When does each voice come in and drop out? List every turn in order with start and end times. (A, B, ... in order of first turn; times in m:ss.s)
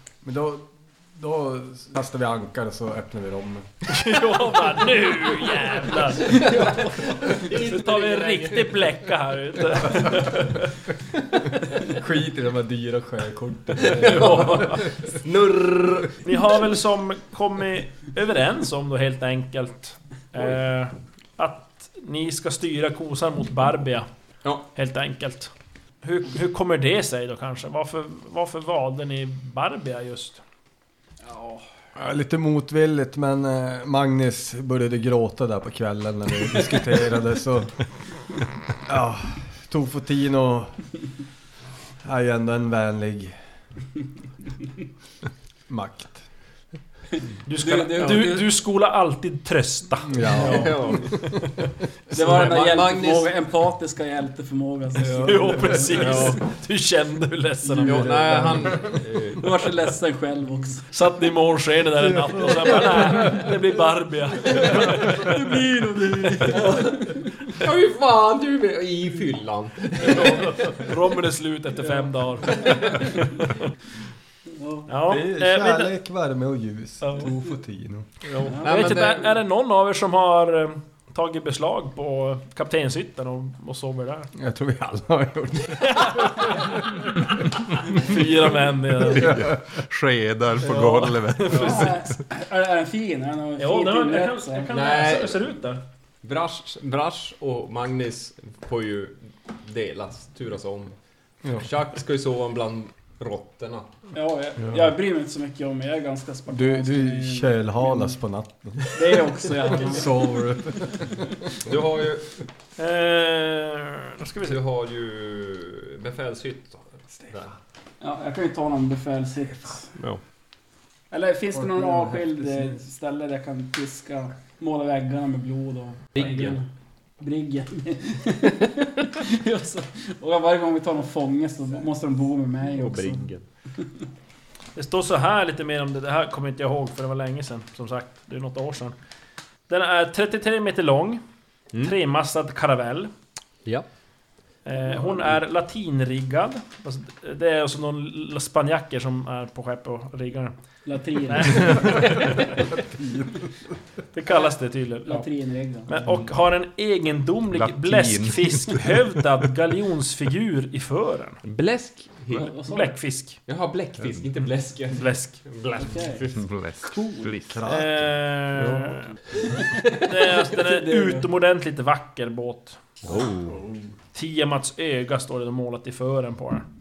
0:00.2-0:03.8 A
0:03.9-0:10.7 B
0:06.2-0:08.9 C
0:09.8-0:10.4 C
0:11.8-0:14.9 A
0:13.8-0:16.2 C
0:16.2-0:24.1 B
0:24.7-0:25.5 B
0:26.0-0:30.4 B
0:31.2-0:31.6 D
0:32.0-0:37.9 A
0:38.8-0:40.8 A
0:42.0-0:43.4 A
0:45.7-0:46.2 A
0:47.4-0:51.1 B
0:47.6-0:48.3 D
0:48.0-0:48.4 C
0:50.1-0:51.5 A
0:50.4-0:51.2 C
0:52.1-0:56.3 D
0:52.1-0:53.3 C
0:55.0-0:55.7 A
0:55.2-0:58.6 B
0:55.9-0:56.4 C
0:57.6-1:00.9 D
0:57.8-0:59.6 C
1:00.9-1:05.4 B
1:05.0-1:07.3 D
1:07.5-1:10.9 C
1:10.0-1:13.6 B
1:12.5-1:12.9 C
1:12.6-1:12.9 D
1:14.5-1:14.9 D
1:14.9-1:15.9 B
1:15.1-1:18.1 A
1:17.0-1:17.3 B
1:18.3-1:19.3 C
1:18.4-1:24.3 B
1:18.4-1:18.7 D
1:24.4-1:26.7 A
1:25.9-1:27.3 B
1:27.9-1:29.4 B
1:29.1-1:29.8 A
1:29.2-1:32.1 E
1:30.6-1:31.9 B
1:31.5-1:34.7 D
1:33.6-1:35.8 B
1:34.7-1:35.4 C
1:36.2-1:41.0 C
1:41.5-1:43.9 C
1:44.1-1:48.1 D
1:44.6-1:44.9 A
1:46.5-1:51.3 A
1:48.9-1:50.4 D
1:51.6-1:52.4 C
1:52.8-1:54.6 B
1:54.4-1:57.5 C
1:58.0-1:59.9 D
2:01.1-2:06.7 D
2:01.5-2:02.8 A
2:06.2-2:06.6 C
2:07.2-2:13.2 D
2:12.7-2:13.4 C
2:14.8-2:19.0 B
2:19.7-2:21.2 B
2:21.8-2:23.1 B
2:24.6-2:30.6 B
2:30.9-2:32.3 D
2:31.2-2:32.6 B
2:32.7-2:33.5 A
2:34.1-2:35.3 B
2:35.1-2:35.9 D
2:35.8-2:41.4 B
2:37.5-2:39.0 E
2:41.4-2:42.5 C
2:42.3-2:43.0 D
2:42.4-2:43.4 B
2:43.5-2:46.5 C
2:44.9-2:45.4 B
2:45.8-2:46.2 D
2:46.4-2:47.6 E
2:47.4-2:48.1 A
2:47.7-2:49.1 B
2:49.9-2:52.8 B
2:50.5-2:51.3 D
2:53.0-2:53.6 C
2:53.5-2:53.9 A
2:54.1-2:56.6 B